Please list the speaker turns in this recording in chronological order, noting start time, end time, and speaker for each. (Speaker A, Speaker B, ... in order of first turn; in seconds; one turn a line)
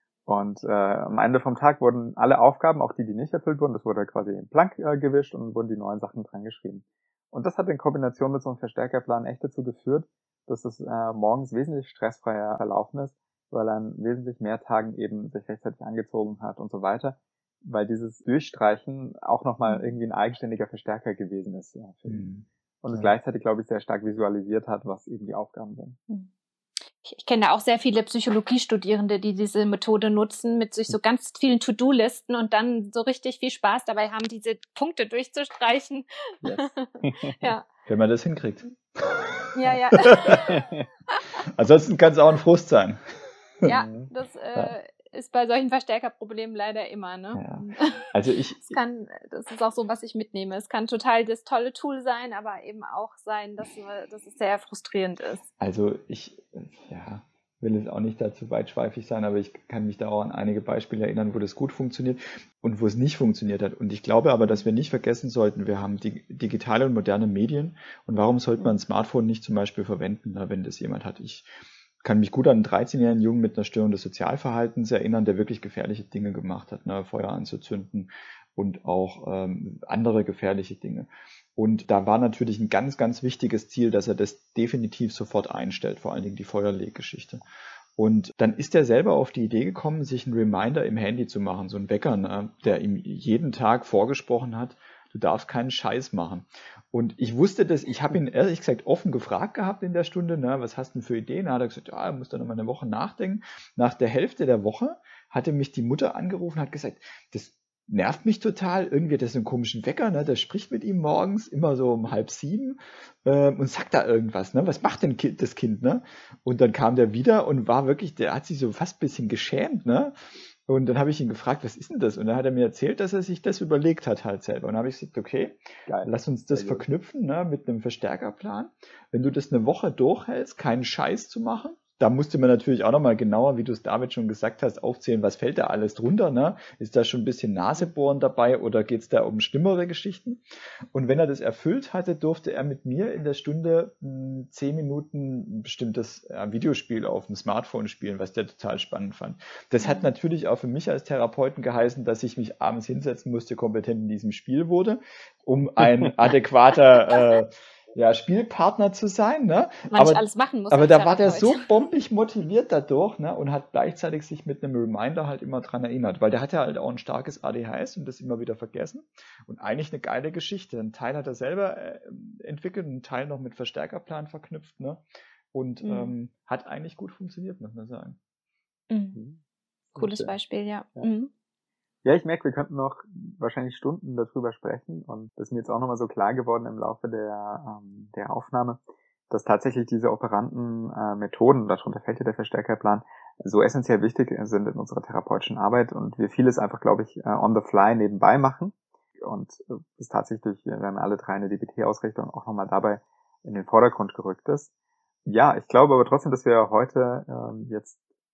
Speaker A: 0.3-26.0
Speaker B: 19.7-20.0
Speaker C: 22.1-23.1
Speaker B: 27.0-37.6
Speaker A: 36.4-37.5
Speaker C: 37.9-40.4
Speaker B: 39.5-40.5
Speaker A: 40.3-40.9
Speaker B: 41.1-41.4
Speaker C: 41.4-43.0
Speaker B: 43.6-48.1
Speaker A: 43.7-44.1
Speaker C: 47.3-48.8
Speaker B: 48.7-55.5
Speaker C: 55.6-71.5
Speaker C: 72.0-87.4
Speaker C: 88.0-178.2
Speaker A: 125.9-126.8
Speaker B: 149.8-150.1
Speaker B: 159.9-161.7
Speaker B: 175.8-176.1
Speaker B: 178.9-179.2
Speaker A: 179.1-179.4
Speaker A: 179.9-180.4
Speaker B: 180.0-181.3
Speaker A: 182.0-204.7
Speaker A: 205.2-208.0